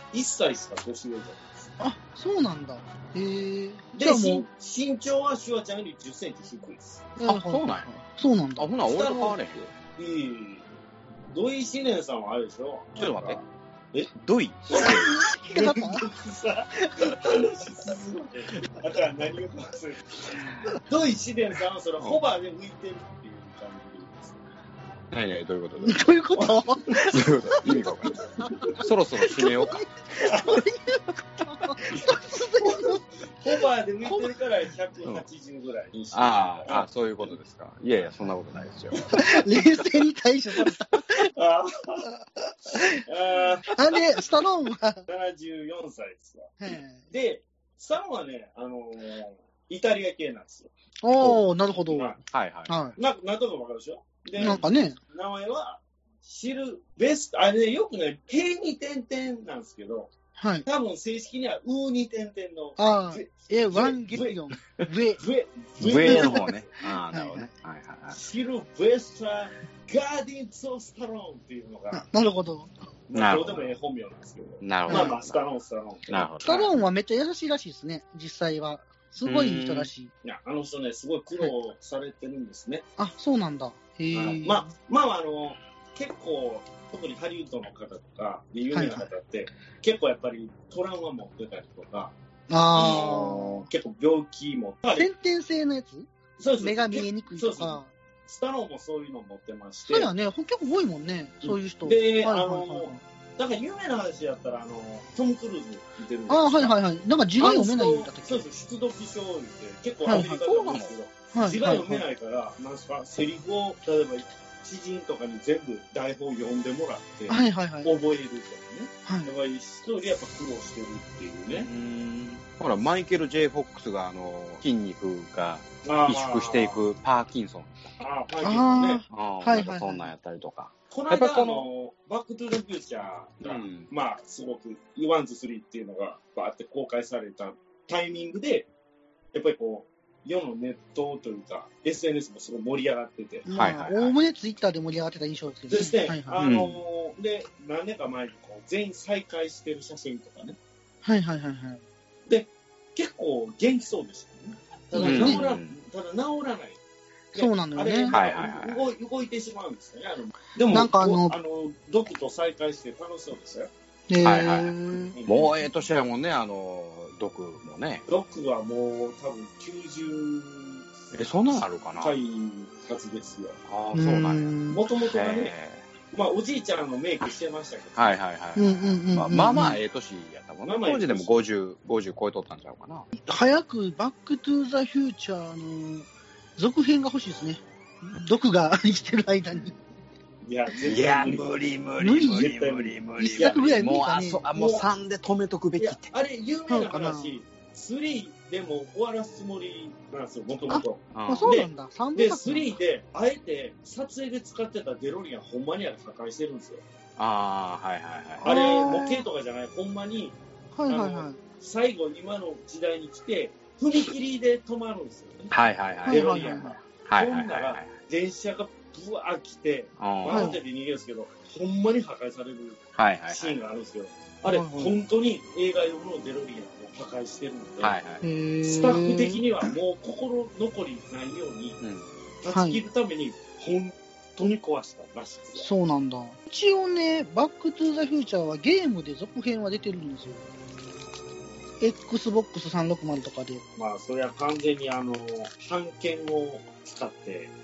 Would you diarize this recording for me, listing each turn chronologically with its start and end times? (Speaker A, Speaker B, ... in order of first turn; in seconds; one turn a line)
Speaker A: 0.1-1.7
Speaker B: 1.8-4.4
Speaker A: 3.9-7.1
Speaker B: 7.2-8.7
Speaker C: 7.2-7.9
Speaker C: 8.6-9.7
Speaker A: 8.9-9.4
Speaker A: 9.9-10.6
Speaker A: 11.3-14.1
Speaker C: 13.0-13.4
Speaker C: 14.1-15.1
Speaker A: 14.7-24.4
Speaker B: 14.8-16.1
Speaker B: 16.8-17.2
Speaker C: 25.1-26.0
Speaker B: 25.8-28.7
Speaker A: 26.3-27.1
Speaker C: 27.1-28.2
Speaker A: 28.2-28.8
Speaker C: 28.7-29.8
Speaker B: 29.2-33.0
Speaker A: 30.2-30.6
Speaker A: 31.9-37.3
Speaker B: 34.0-34.3
Speaker C: 36.1-39.0
Speaker A: 38.9-39.8
Speaker B: 39.1-41.3
Speaker A: 40.6-42.1
Speaker B: 42.7-43.0
Speaker A: 42.9-44.2
Speaker B: 43.7-45.0
Speaker A: 45.1-46.6
Speaker B: 46.6-47.0
Speaker A: 47.1-50.7
Speaker B: 51.0-52.1
Speaker A: 51.9-52.2
Speaker C: 52.3-52.7
Speaker B: 52.7-53.0
Speaker A: 53.0-60.1
Speaker B: 54.4-55.0
Speaker B: 60.4-60.6
Speaker A: 60.6-64.4
Speaker B: 62.8-65.2
Speaker A: 65.2-66.7
Speaker C: 65.8-68.2
Speaker B: 66.0-66.4
Speaker B: 67.1-67.5
Speaker A: 68.1-72.0
Speaker B: 71.9-72.7
Speaker A: 73.1-76.3
Speaker C: 73.1-73.7
Speaker C: 74.6-75.4
Speaker B: 74.9-75.1
Speaker C: 76.1-76.7
Speaker B: 76.4-80.1
Speaker C: 79.2-79.9
Speaker A: 80.2-82.8
Speaker B: 83.0-84.7
Speaker A: 84.1-92.1
Speaker B: 88.7-89.1
Speaker B: 92.5-93.7
Speaker A: 92.7-95.1
Speaker B: 95.0-96.1
Speaker A: 96.4-100.1
Speaker B: 96.6-97.9
Speaker B: 99.9-103.0
Speaker A: 101.4-106.8
Speaker B: 106.3-108.4
Speaker A: 107.4-121.7
Speaker B: 110.0-110.4
Speaker C: 110.1-110.9
Speaker B: 111.3-112.0
Speaker B: 117.3-117.9
Speaker B: 119.0-119.3
Speaker C: 121.6-127.9
Speaker A: 125.8-126.8
Speaker A: 128.0-129.0
Speaker B: 128.4-130.1
Speaker C: 129.1-131.7
Speaker A: 130.9-138.7
Speaker C: 133.4-133.9
Speaker A: 139.3-143.4
Speaker B: 143.4-146.4
Speaker C: 143.5-144.1
Speaker A: 145.7-150.6
Speaker C: 146.4-146.8
Speaker B: 151.0-151.8
Speaker A: 152.3-156.8
Speaker B: 154.9-155.4
Speaker C: 155.0-155.7
Speaker B: 157.3-158.2
Speaker A: 157.3-163.7
Speaker C: 158.1-158.8
Speaker B: 160.7-161.4
Speaker B: 164.1-165.2
Speaker C: 164.2-168.0
Speaker A: 165.1-165.6
Speaker A: 168.1-170.8
Speaker C: 171.1-172.2
Speaker A: 171.5-173.6
Speaker C: 173.7-174.5
Speaker B: 173.9-174.8
Speaker A: 174.7-175.5
Speaker C: 175.1-175.9
Speaker A: 176.1-178.2
Speaker C: 177.9-183.1
Speaker B: 178.6-179.8
Speaker A: 180.6-181.3
Speaker B: 183.2-189.8
Speaker A: 190.4-191.6
Speaker C: 190.8-196.1
Speaker B: 192.0-192.5
Speaker A: 192.2-193.7
Speaker B: 193.2-194.4
Speaker A: 194.5-194.9
Speaker A: 195.8-206.8
Speaker B: 196.7-197.4
Speaker B: 200.7-202.7
Speaker C: 201.1-201.6
Speaker C: 207.2-208.7
Speaker A: 208.4-228.0
Speaker B: 208.4-209.2
Speaker B: 210.7-211.4
Speaker C: 215.5-217.9
Speaker B: 216.1-216.8
Speaker C: 220.0-220.5
Speaker B: 220.3-220.6
Speaker C: 222.9-223.6
Speaker B: 224.5-224.9
Speaker C: 227.8-228.2
Speaker B: 228.2-229.4
Speaker A: 228.6-231.8
Speaker C: 231.8-232.1
Speaker A: 232.4-235.7
Speaker B: 232.5-232.8
Speaker B: 235.6-240.4
Speaker B: 241.8-243.6
Speaker A: 243.8-247.5